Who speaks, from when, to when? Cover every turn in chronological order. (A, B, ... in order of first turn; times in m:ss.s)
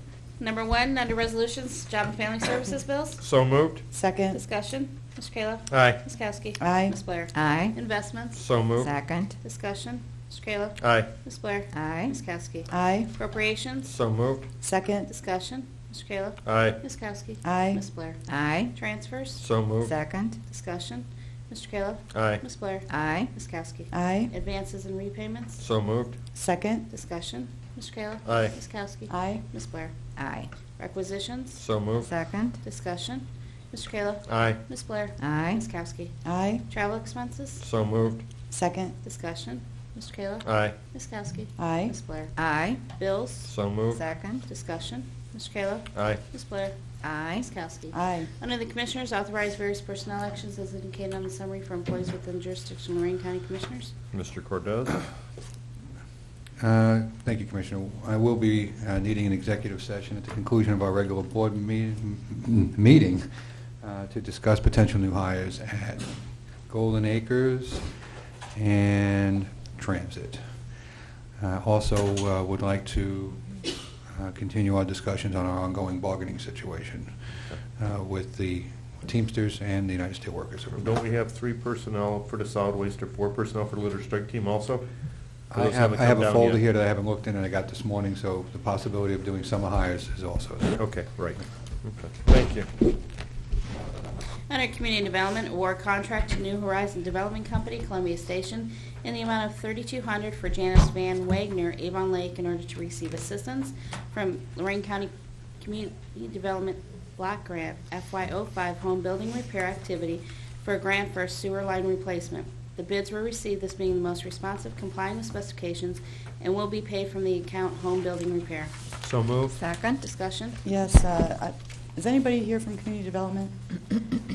0:00.4-0:03.2 A
0:03.2-0:03.8 B
0:03.9-0:04.4 C
0:04.3-0:08.4 A
0:05.7-0:06.0 B
0:06.6-0:07.0 C
0:07.3-0:07.8 D
0:08.3-0:08.9 B
0:08.8-0:09.4 D
0:09.4-0:13.9 A
0:10.8-0:11.1 B
0:11.7-0:12.2 D
0:12.7-0:13.1 C
0:13.8-0:14.5 B
0:14.6-0:15.1 C
0:15.1-0:18.2 A
0:16.4-0:16.8 B
0:17.4-0:17.8 C
0:18.3-0:18.8 D
0:18.7-0:19.4 A
0:19.4-0:19.9 B
0:19.8-0:20.4 D
0:20.4-0:25.6 A
0:22.1-0:22.4 B
0:22.9-0:23.3 D
0:23.9-0:24.3 C
0:25.6-0:26.2 B
0:26.3-0:26.9 C
0:26.9-0:29.9 A
0:28.2-0:28.6 B
0:29.1-0:29.4 C
0:30.2-0:30.5 D
0:30.8-0:31.6 A
0:31.6-0:32.1 B
0:32.0-0:32.6 D
0:32.6-0:36.2 A
0:34.3-0:34.6 B
0:35.2-0:35.7 D
0:36.2-0:36.6 C
0:36.7-0:37.6 A
0:37.6-0:38.2 B
0:38.5-0:38.9 C
0:39.0-0:42.3 A
0:40.4-0:40.8 B
0:41.6-0:42.0 C
0:42.4-0:42.8 D
0:42.9-0:43.5 A
0:43.4-0:44.0 B
0:43.9-0:44.5 D
0:44.5-0:46.8 A
0:45.9-0:46.2 B
0:47.0-0:47.5 D
0:47.4-0:53.9 A
0:47.9-0:48.3 C
0:54.1-0:55.0 B
0:56.6-1:03.3 E
1:03.8-1:06.1 E
1:06.7-1:07.9 E
1:08.6-1:10.4 E
1:11.4-1:13.5 E
1:14.1-1:17.1 E
1:17.8-1:20.9 E
1:20.8-1:24.9 B
1:25.5-1:30.8 E
1:25.5-1:26.6 B
1:30.8-1:32.7 B
1:34.5-1:58.7 A
1:59.0-1:59.6 B
1:59.5-2:00.0 D
2:00.0-2:00.6 A
2:00.6-2:03.5 C